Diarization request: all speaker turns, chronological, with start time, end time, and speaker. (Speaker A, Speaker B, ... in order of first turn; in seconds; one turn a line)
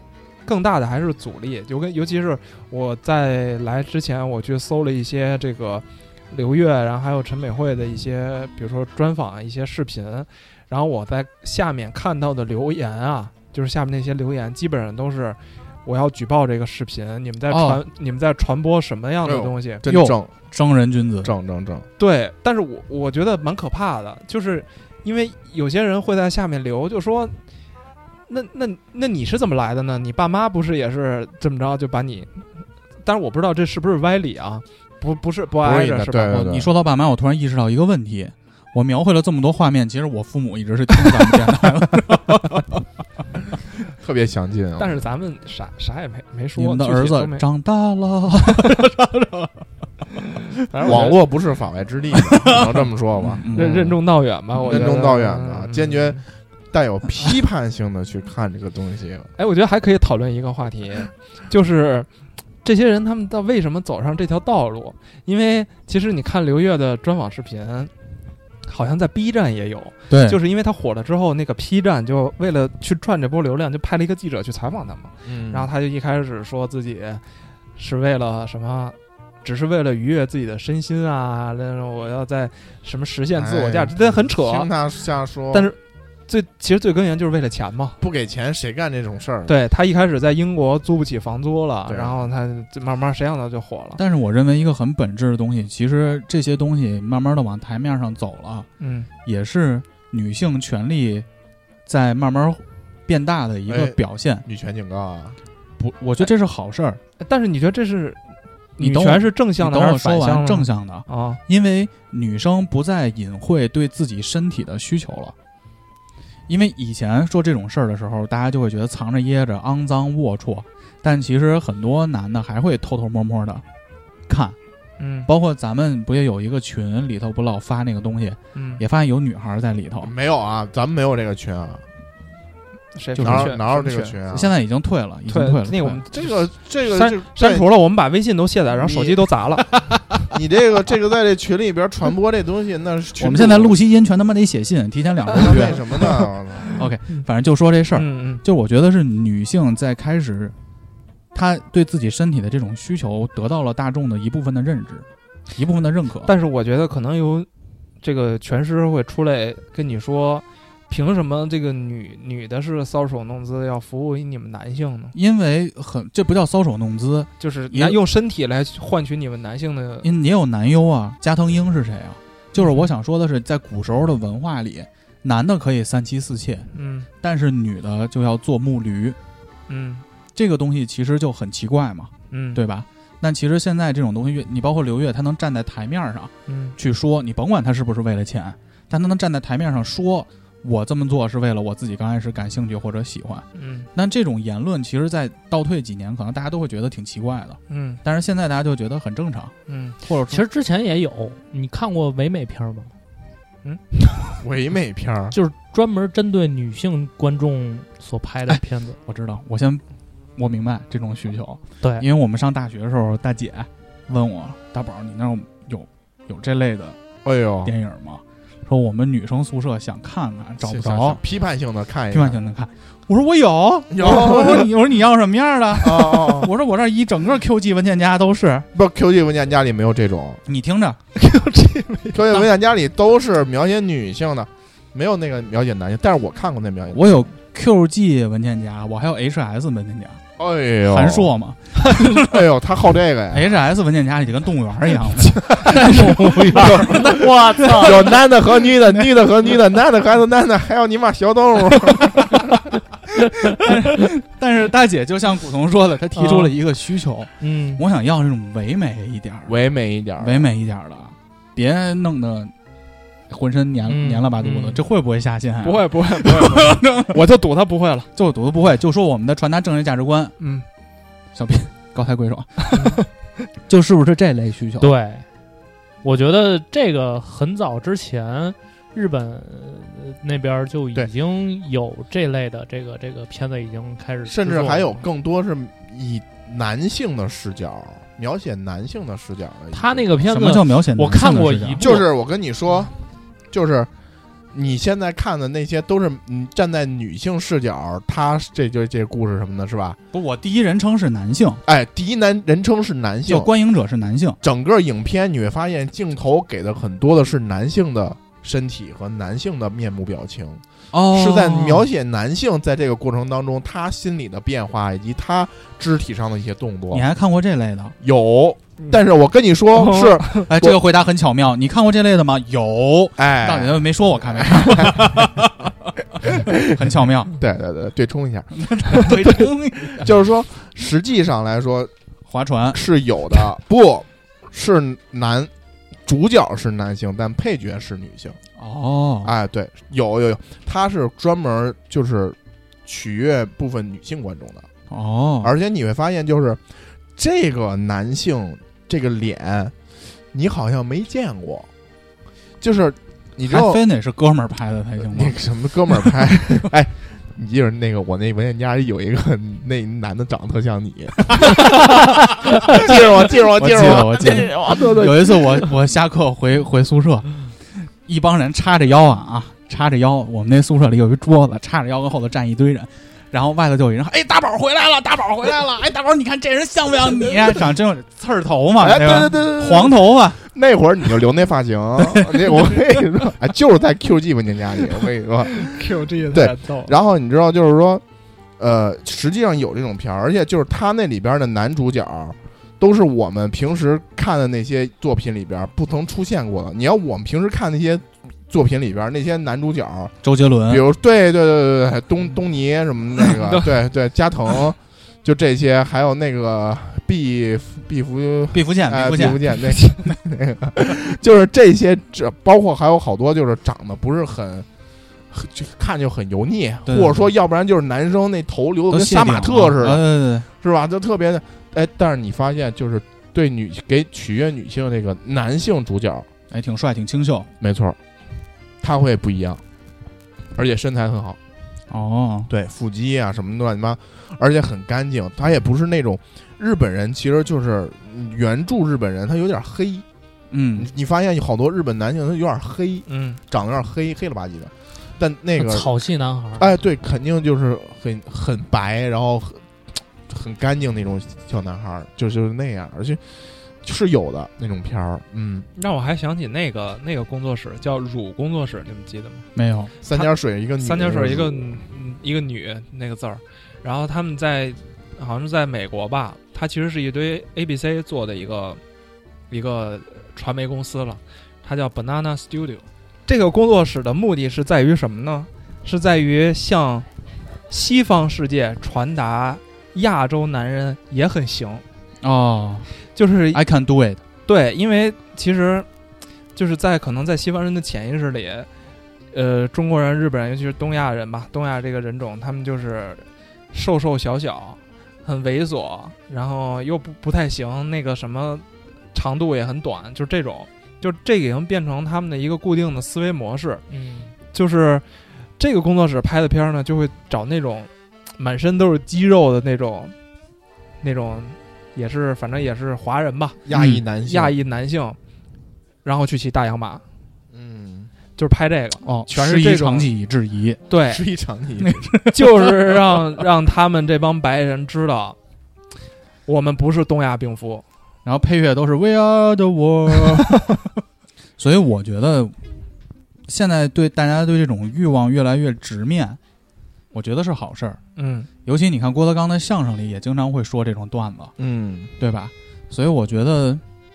Speaker A: 0.5-19.8
Speaker B: 17.5-17.8
Speaker C: 19.2-20.3
Speaker B: 19.9-21.3
Speaker C: 21.2-21.9
Speaker A: 22.0-27.4
Speaker A: 28.3-32.5
Speaker A: 33.0-36.4
Speaker C: 35.6-36.7
Speaker B: 36.3-42.5
Speaker C: 44.0-45.0
Speaker A: 44.8-47.5
Speaker B: 46.6-49.5
Speaker A: 50.7-51.2
Speaker C: 50.8-54.0
Speaker B: 53.2-53.7
Speaker A: 53.5-56.2
Speaker C: 54.5-59.3
Speaker A: 59.4-62.1
Speaker A: 62.6-67.9
Speaker A: 68.7-77.2
Speaker B: 70.1-70.4
Speaker C: 75.2-75.7
Speaker A: 77.8-84.7
Speaker C: 83.3-85.7
Speaker A: 85.5-88.0
Speaker C: 88.0-89.5
Speaker A: 89.5-94.0
Speaker C: 91.9-92.2
Speaker B: 94.0-98.7
Speaker A: 98.8-99.1
Speaker B: 99.2-101.3
Speaker B: 101.9-104.5
Speaker C: 103.7-105.4
Speaker B: 105.8-107.0
Speaker A: 107.2-108.2
Speaker A: 108.8-111.4
Speaker B: 108.8-115.3
Speaker B: 116.5-123.6
Speaker B: 124.3-124.6
Speaker A: 125.0-125.3
Speaker B: 125.3-130.1
Speaker A: 128.6-128.8
Speaker C: 130.0-131.8
Speaker A: 132.9-134.2
Speaker B: 133.2-133.6
Speaker C: 133.2-134.5
Speaker B: 134.3-136.0
Speaker A: 135.3-139.7
Speaker C: 136.1-137.7
Speaker C: 138.8-139.3
Speaker C: 140.3-143.8
Speaker B: 143.2-145.8
Speaker C: 145.3-146.8
Speaker B: 146.8-150.5
Speaker A: 147.9-148.4
Speaker B: 151.3-156.3
Speaker A: 156.3-157.5
Speaker A: 158.0-165.2
Speaker B: 165.1-168.0
Speaker A: 167.4-170.1
Speaker B: 170.0-176.7
Speaker A: 176.7-177.1
Speaker B: 177.2-179.2
Speaker A: 179.7-180.0
Speaker B: 180.3-200.4
Speaker A: 182.3-182.6
Speaker A: 186.5-186.8
Speaker A: 193.6-193.9
Speaker A: 197.7-198.0
Speaker A: 199.7-200.0
Speaker D: 200.3-202.9
Speaker A: 203.6-203.9
Speaker C: 204.4-205.4
Speaker D: 205.3-209.0
Speaker B: 209.1-209.8
Speaker B: 210.4-217.0
Speaker D: 211.8-212.1
Speaker C: 217.2-217.7
Speaker B: 217.7-221.2
Speaker C: 220.6-222.4
Speaker B: 222.1-228.7
Speaker C: 223.9-224.7
Speaker C: 225.8-226.5
Speaker C: 228.7-230.4
Speaker B: 230.5-231.0
Speaker A: 231.2-232.2
Speaker C: 232.1-237.3
Speaker B: 236.9-240.2
Speaker C: 240.4-241.3
Speaker B: 240.9-242.1
Speaker C: 242.0-243.5
Speaker B: 243.3-247.9
Speaker D: 245.8-248.2
Speaker C: 246.6-252.5
Speaker B: 253.6-259.5
Speaker D: 256.1-256.6
Speaker D: 257.4-257.8
Speaker C: 259.5-260.5
Speaker B: 260.2-262.5
Speaker B: 263.3-267.1
Speaker D: 263.9-264.8
Speaker A: 265.6-268.1
Speaker B: 268.1-270.4
Speaker A: 270.4-270.6
Speaker B: 271.3-272.8
Speaker A: 272.7-273.0
Speaker B: 273.7-274.9
Speaker D: 274.8-275.3
Speaker D: 276.0-285.0
Speaker C: 284.2-290.1
Speaker D: 289.7-292.1
Speaker B: 290.3-291.9
Speaker C: 291.8-292.9
Speaker C: 293.5-293.9
Speaker C: 294.5-300.0
Speaker B: 300.1-301.6
Speaker C: 301.6-303.5
Speaker B: 303.3-304.4
Speaker C: 304.4-317.1
Speaker B: 310.9-311.9
Speaker B: 316.9-317.9
Speaker C: 318.0-320.8
Speaker A: 319.7-320.4
Speaker B: 320.5-325.5
Speaker C: 323.2-325.3
Speaker C: 326.3-326.6
Speaker B: 326.7-327.4
Speaker C: 327.3-329.4
Speaker B: 328.6-330.1
Speaker C: 329.9-331.9
Speaker B: 332.3-332.8
Speaker C: 332.7-335.5
Speaker C: 336.1-338.4
Speaker B: 338.6-339.3
Speaker C: 339.2-344.7
Speaker B: 344.9-345.5
Speaker C: 345.4-346.6
Speaker C: 347.1-349.8
Speaker C: 350.3-351.7
Speaker C: 352.6-353.8
Speaker B: 353.5-355.4
Speaker C: 355.1-365.7
Speaker B: 363.6-367.5
Speaker B: 368.0-380.4
Speaker C: 378.8-388.0
Speaker A: 385.6-386.9
Speaker C: 388.6-400.2
Speaker B: 400.2-400.9
Speaker C: 400.7-414.7
Speaker B: 408.5-409.6
Speaker C: 415.3-426.3
Speaker B: 416.9-417.3
Speaker B: 418.9-420.5
Speaker B: 426.5-427.5
Speaker C: 427.6-428.0
Speaker C: 428.8-429.6
Speaker C: 430.6-431.4
Speaker B: 431.9-432.5
Speaker C: 432.5-440.1
Speaker B: 440.5-440.9
Speaker C: 440.8-445.9
Speaker A: 443.1-443.4
Speaker D: 445.6-446.7
Speaker C: 446.6-453.2
Speaker C: 453.8-455.7
Speaker A: 455.8-459.5
Speaker B: 459.6-459.9
Speaker C: 460.0-461.8
Speaker A: 460.1-468.8
Speaker A: 469.5-477.1
Speaker A: 477.7-481.8
Speaker B: 482.2-482.9
Speaker A: 483.1-483.6
Speaker B: 483.5-484.2
Speaker A: 484.5-485.9
Speaker A: 486.6-488.7
Speaker A: 489.3-503.9
Speaker D: 503.9-504.4
Speaker A: 504.5-505.1
Speaker A: 505.6-510.1
Speaker A: 511.0-513.7
Speaker C: 513.7-514.6
Speaker B: 513.7-514.0
Speaker A: 514.2-515.2
Speaker A: 516.0-517.0
Speaker C: 517.5-518.1
Speaker A: 518.4-520.1
Speaker B: 519.0-520.8
Speaker A: 520.9-521.3
Speaker C: 521.1-522.2
Speaker A: 522.3-525.4
Speaker A: 526.5-527.9
Speaker B: 528.2-530.7
Speaker B: 531.6-532.5
Speaker B: 533.5-536.4
Speaker B: 537.1-538.0
Speaker A: 538.2-538.5
Speaker B: 538.6-541.5
Speaker C: 541.6-542.1
Speaker B: 542.2-543.8